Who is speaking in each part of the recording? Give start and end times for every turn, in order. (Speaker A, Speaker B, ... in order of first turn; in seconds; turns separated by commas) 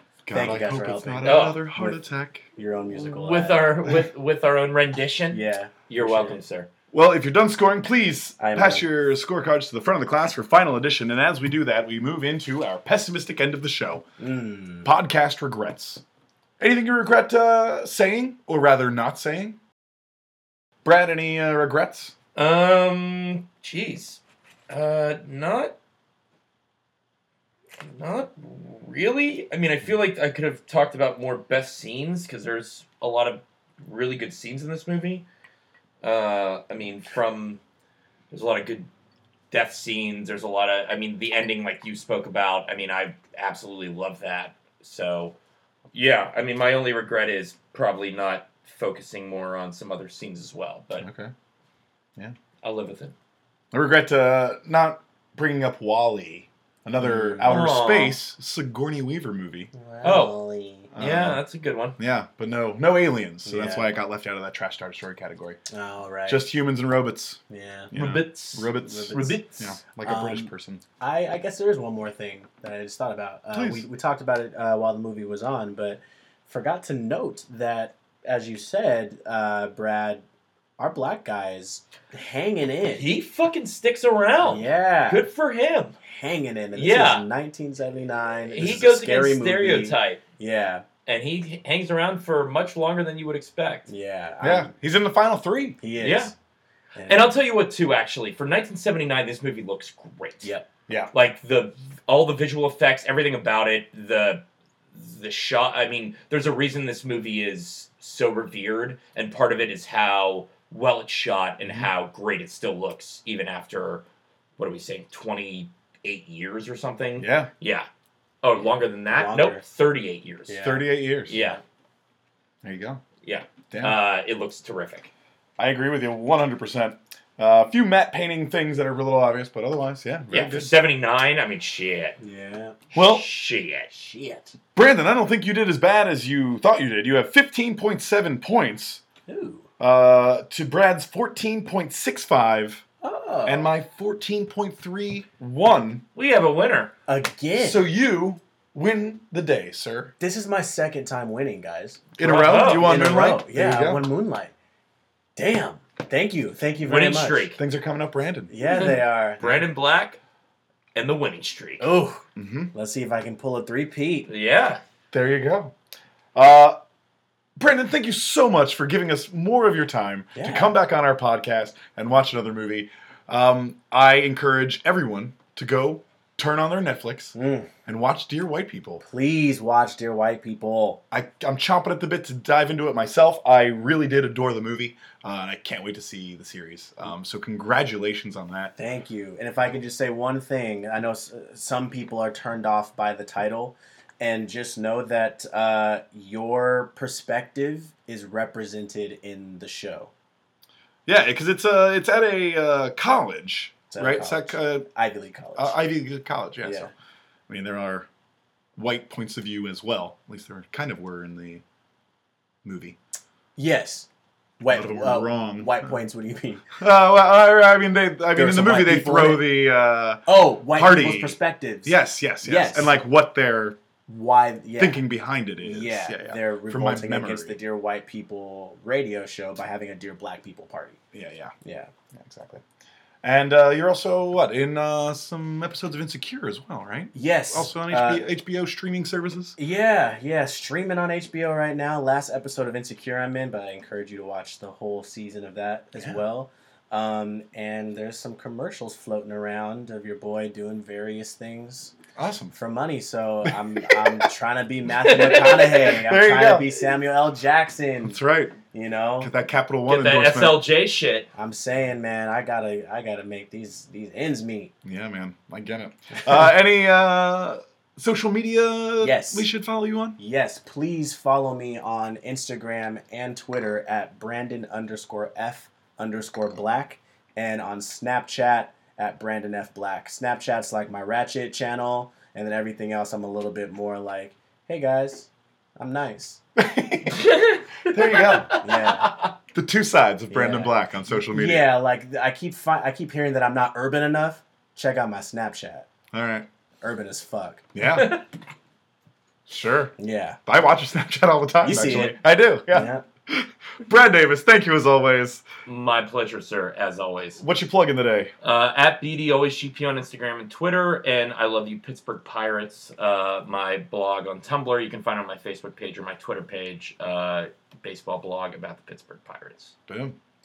Speaker A: 0.2-2.5, Speaker B: 0.3-2.0, Speaker C: 1.2-1.6, Speaker B: 2.5-3.8, Speaker C: 2.9-6.7, Speaker B: 5.3-6.4, Speaker A: 6.9-14.0, Speaker B: 8.4-8.9, Speaker B: 14.2-14.9, Speaker A: 14.8-16.0, Speaker A: 16.6-19.6, Speaker A: 20.8-22.1, Speaker C: 22.4-25.8, Speaker C: 27.8-35.3, Speaker C: 36.0-37.6, Speaker C: 38.3-38.9, Speaker C: 39.5-45.4, Speaker C: 45.9-51.1, Speaker A: 51.0-51.3, Speaker C: 52.6-53.1, Speaker A: 53.7-59.7, Speaker B: 57.0-57.7, Speaker C: 57.5-58.2, Speaker B: 59.7-60.9, Speaker C: 60.0-60.4, Speaker A: 60.9-61.4, Speaker C: 61.0-62.0, Speaker A: 62.0-65.6, Speaker B: 63.5-63.9, Speaker B: 65.7-66.5, Speaker A: 66.3-67.4, Speaker B: 67.5-67.9, Speaker A: 67.9-70.8, Speaker C: 67.9-69.8, Speaker B: 68.8-69.4, Speaker B: 70.0-70.5, Speaker B: 71.0-80.2, Speaker A: 73.5-73.9, Speaker B: 80.8-83.1, Speaker C: 82.9-86.0, Speaker B: 84.4-85.3, Speaker B: 86.0-90.8, Speaker C: 86.7-87.2, Speaker C: 88.5-90.2, Speaker C: 91.1-93.9, Speaker B: 93.9-94.7, Speaker A: 94.4-95.8, Speaker B: 95.8-96.3, Speaker C: 96.0-96.3, Speaker B: 97.0-97.3, Speaker C: 97.1-100.5, Speaker C: 101.1-114.0, Speaker A: 111.6-111.9, Speaker C: 114.6-117.9, Speaker A: 117.2-117.5, Speaker C: 118.4-120.7, Speaker B: 119.1-119.7, Speaker B: 120.5-120.8, Speaker A: 120.6-121.4, Speaker C: 121.3-121.6, Speaker A: 122.6-123.0, Speaker C: 123.2-125.1, Speaker A: 123.7-124.0, Speaker A: 125.6-130.8, Speaker C: 130.3-132.2, Speaker B: 132.2-132.8, Speaker A: 132.9-133.3, Speaker C: 132.9-133.9, Speaker B: 133.9-134.6, Speaker A: 134.8-139.0, Speaker B: 139.3-139.7, Speaker A: 139.8-142.8, Speaker B: 143.0-143.7, Speaker A: 143.5-146.0, Speaker C: 146.2-146.9, Speaker B: 147.1-147.8, Speaker A: 147.5-150.1, Speaker B: 150.2-154.5, Speaker A: 152.2-154.0, Speaker C: 152.2-152.9, Speaker B: 155.4-157.5, Speaker C: 156.8-157.6, Speaker A: 157.6-158.5, Speaker B: 158.5-159.4, Speaker C: 158.6-160.2, Speaker C: 160.9-161.9, Speaker B: 161.8-164.3, Speaker A: 162.4-162.7, Speaker C: 164.3-164.8, Speaker A: 165.1-165.7, Speaker A: 166.3-166.8, Speaker A: 167.6-179.0, Speaker B: 170.3-170.8, Speaker B: 177.3-177.7, Speaker B: 179.0-181.0, Speaker A: 181.1-188.7, Speaker B: 188.8-200.1, Speaker A: 201.1-204.9, Speaker B: 203.9-205.8, Speaker A: 205.6-206.9, Speaker B: 206.6-206.9, Speaker A: 207.5-208.1, Speaker A: 208.8-211.6, Speaker A: 212.6-213.0, Speaker B: 213.6-214.1, Speaker B: 214.6-216.8, Speaker A: 214.7-215.9, Speaker A: 216.8-223.8, Speaker B: 218.3-219.5, Speaker B: 220.3-223.0, Speaker B: 224.1-225.0, Speaker A: 224.8-227.6, Speaker B: 225.6-231.0, Speaker A: 231.1-231.5, Speaker B: 231.6-231.9, Speaker A: 232.1-232.6, Speaker A: 233.2-239.6, Speaker B: 237.1-238.2, Speaker B: 239.6-251.9, Speaker A: 252.2-252.6, Speaker B: 252.5-258.2, Speaker A: 253.5-254.3, Speaker C: 255.0-255.7, Speaker A: 255.8-256.8, Speaker A: 258.1-258.6, Speaker B: 258.7-259.3, Speaker A: 259.2-260.6, Speaker C: 259.9-261.3, Speaker B: 261.4-264.7, Speaker A: 264.9-270.2, Speaker B: 269.0-269.5, Speaker B: 270.2-286.4, Speaker A: 286.6-287.3, Speaker C: 287.1-289.3, Speaker A: 287.9-288.6, Speaker B: 288.6-289.1, Speaker A: 289.5-291.7, Speaker B: 290.3-295.9, Speaker A: 296.1-296.5, Speaker B: 296.8-297.7, Speaker A: 297.7-298.1, Speaker C: 297.9-298.2, Speaker A: 299.5-299.9, Speaker B: 300.0-300.4, Speaker A: 300.5-305.4, Speaker B: 301.6-303.0, Speaker C: 305.7-307.4, Speaker A: 307.4-308.3, Speaker C: 308.4-319.7, Speaker A: 319.9-320.2